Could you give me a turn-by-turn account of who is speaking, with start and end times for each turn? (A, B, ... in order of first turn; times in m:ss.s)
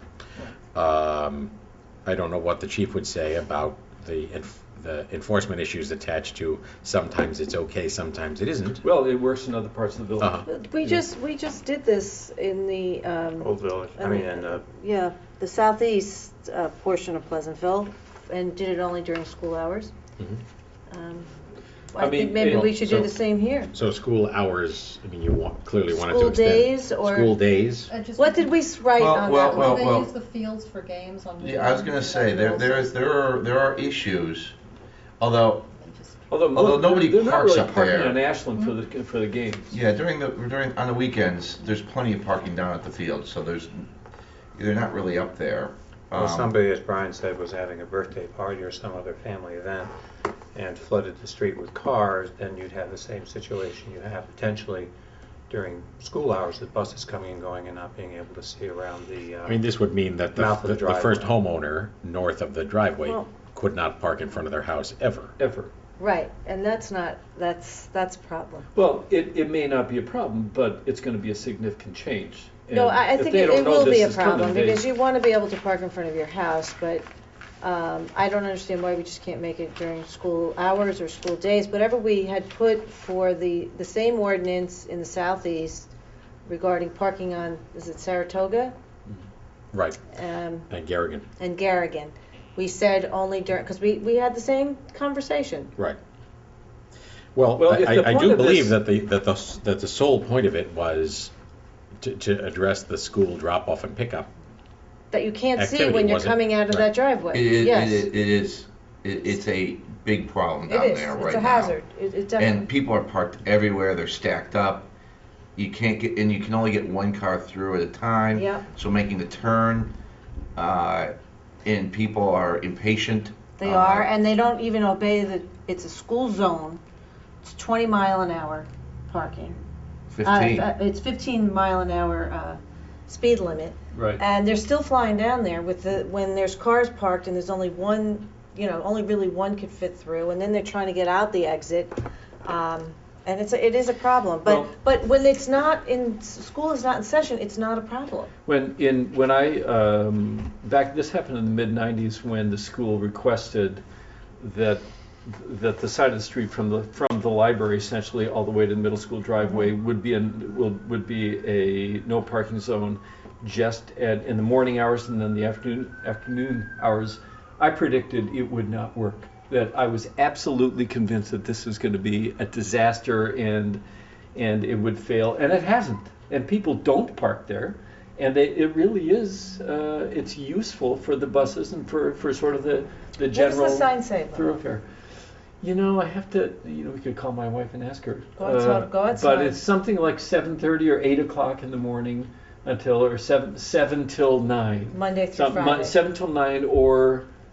0:00.7-0:01.5 A
0:02.0-0:08.8 A
0:08.8-0:11.0 B
0:10.2-0:10.4 A
0:10.5-0:19.9 C
0:13.4-0:14.6 D
0:20.9-0:21.3 C
0:21.9-0:23.7 C
0:22.0-0:22.7 B
0:22.6-0:23.1 A
0:23.7-0:27.9 A
0:25.9-0:27.4 C
0:27.9-0:28.6 E
0:28.2-0:29.9 C
0:28.9-0:30.1 F
0:29.2-0:32.9 E
0:31.4-0:34.5 F
0:35.2-0:35.6 F
0:35.6-0:36.4 E
0:36.3-0:39.8 B
0:36.5-0:38.2 F
0:39.7-0:43.9 F
0:44.5-0:46.5 F
0:46.2-0:49.9 D
0:50.5-0:54.9 D
0:55.5-0:59.6 D
0:59.4-1:05.3 A
1:00.3-1:01.4 D
1:05.4-1:05.7 B
1:06.0-1:08.6 C
1:08.7-1:14.9 B
1:12.7-1:17.0 C
1:17.6-1:25.9 C
1:26.4-1:28.7 C
1:29.7-1:30.0 A
1:30.1-1:30.7 C
1:30.7-1:31.2 A
1:31.4-1:35.7 C
1:37.3-1:41.3 A
1:37.6-1:38.8 B
1:42.0-1:44.3 A
1:45.1-1:48.1 C
1:45.6-1:46.9 A
1:47.3-1:51.8 F
1:50.7-1:52.7 C
1:52.4-1:54.9 F
1:55.6-1:59.9 F
1:58.3-1:58.6 C
2:00.5-2:01.1 F
2:01.6-2:04.1 F
2:03.6-2:06.8 C
2:07.4-2:09.6 C
2:10.1-2:10.7 F
2:10.2-2:28.3 C
2:13.9-2:14.2 B
2:24.4-2:24.7 B
2:28.4-2:33.8 B
2:34.4-2:53.8 B
2:54.3-3:04.8 B
3:03.3-3:04.4 C
3:05.6-3:17.3 B
3:08.4-3:09.6 C
3:14.9-3:16.0 C